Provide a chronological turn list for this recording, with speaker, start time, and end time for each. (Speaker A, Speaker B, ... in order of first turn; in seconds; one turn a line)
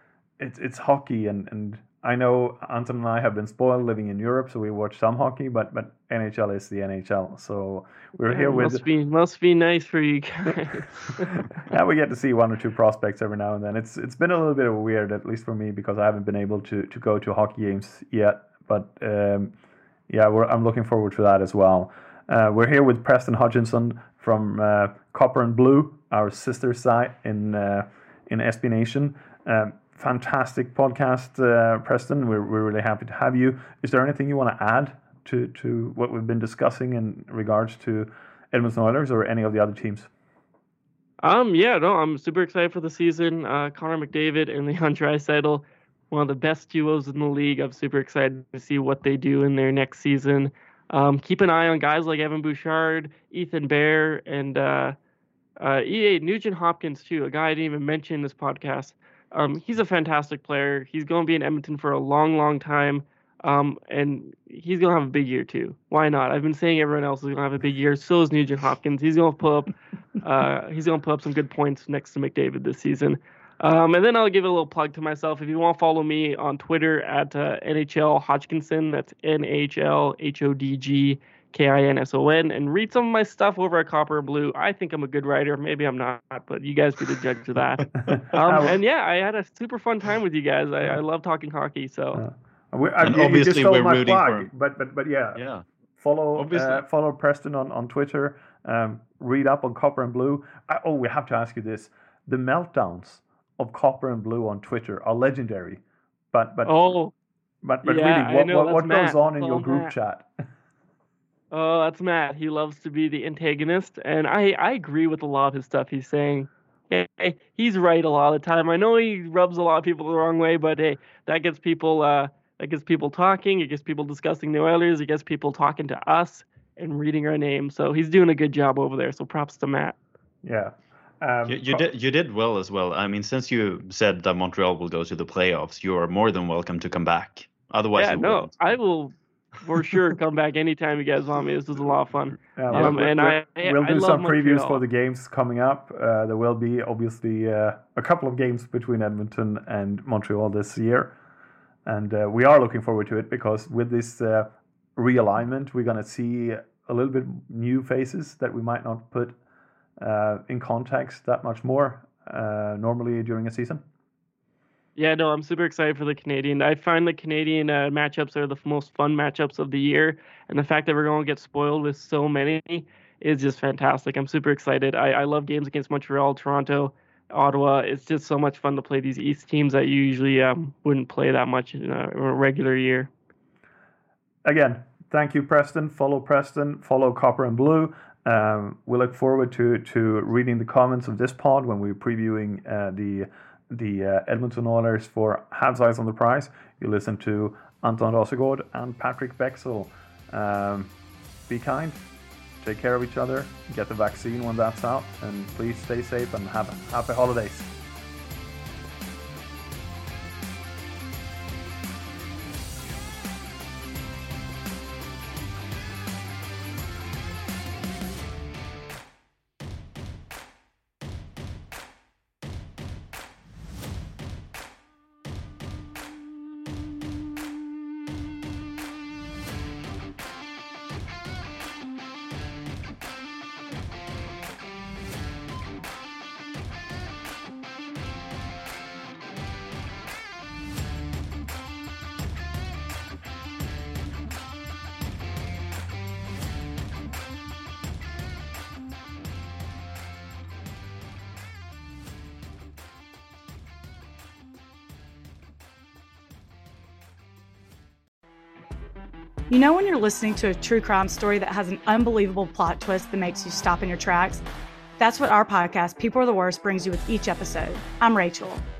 Speaker A: 0.4-8.8
Speaker B: 8.3-11.3
Speaker A: 11.6-19.5
Speaker A: 20.1-40.1
Speaker B: 41.2-55.0
Speaker B: 55.6-92.2
Speaker A: 88.0-88.8
Speaker A: 92.1-95.4
Speaker C: 93.0-94.5
Speaker C: 95.3-95.6
Speaker A: 96.0-106.9
Speaker C: 96.3-96.8
Speaker B: 106.6-107.1
Speaker A: 107.6-110.3
Speaker B: 107.8-109.9
Speaker B: 111.5-129.9
Speaker A: 130.4-131.9
Speaker C: 131.4-138.6
Speaker B: 138.0-144.8
Speaker A: 142.6-151.1
Speaker A: 151.8-159.4
Speaker A: 160.0-163.8
Speaker B: 165.0-183.1
Speaker A: 184.4-200.9
Speaker A: 201.5-202.0
Speaker A: 202.6-207.7
Speaker D: 259.5-264.4
Speaker D: 265.0-268.6